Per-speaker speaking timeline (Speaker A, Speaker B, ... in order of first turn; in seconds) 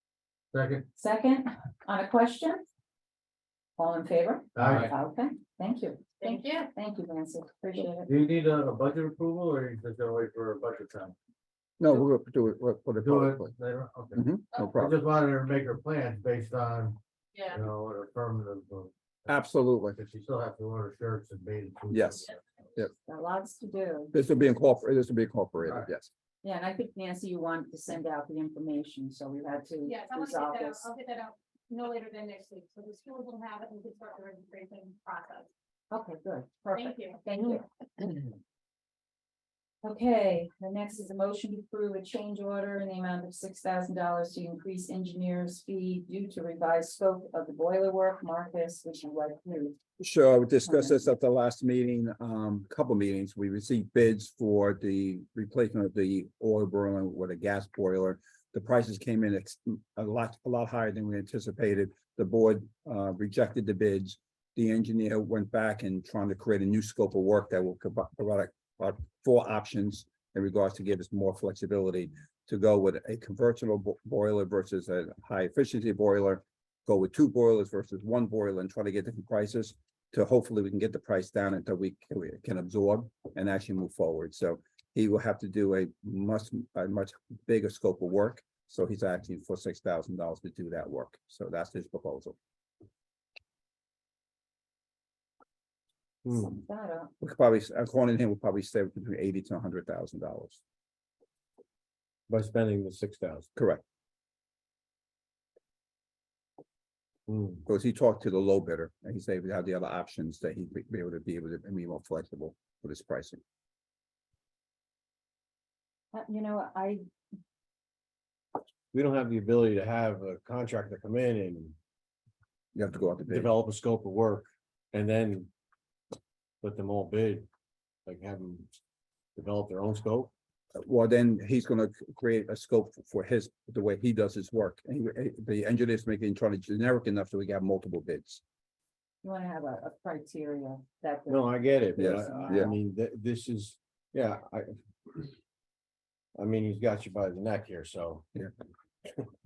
Speaker A: 0.5-0.9, 4.6-4.9, 8.1-11.2, 13.0-17.0, 17.5-18.9, 19.9-22.4
Speaker B: 1.0-2.6, 3.8-8.1, 23.1-24.2, 26.4-30.9, 35.9-37.7, 39.8-49.8, 50.6-51.0, 96.4-97.1, 116.1-117.0, 139.2-142.8
Speaker C: 6.2-6.7, 29.9-35.5, 36.7-37.2
Speaker D: 11.8-13.5, 14.1-15.0, 19.3-20.0, 21.9-22.9, 24.1-26.1, 50.0-92.4, 97.2-100.6, 103.5-103.8, 107.7-113.4, 122.8-123.5, 130.8-138.4, 142.0-142.7
Speaker E: 96.2-96.6, 102.3-103.5, 107.3-107.7, 118.9-121.8, 123.3-125.5, 126.6-127.5, 128.1-128.7, 129.4-130.3, 141.3-145.3, 146.3-148.3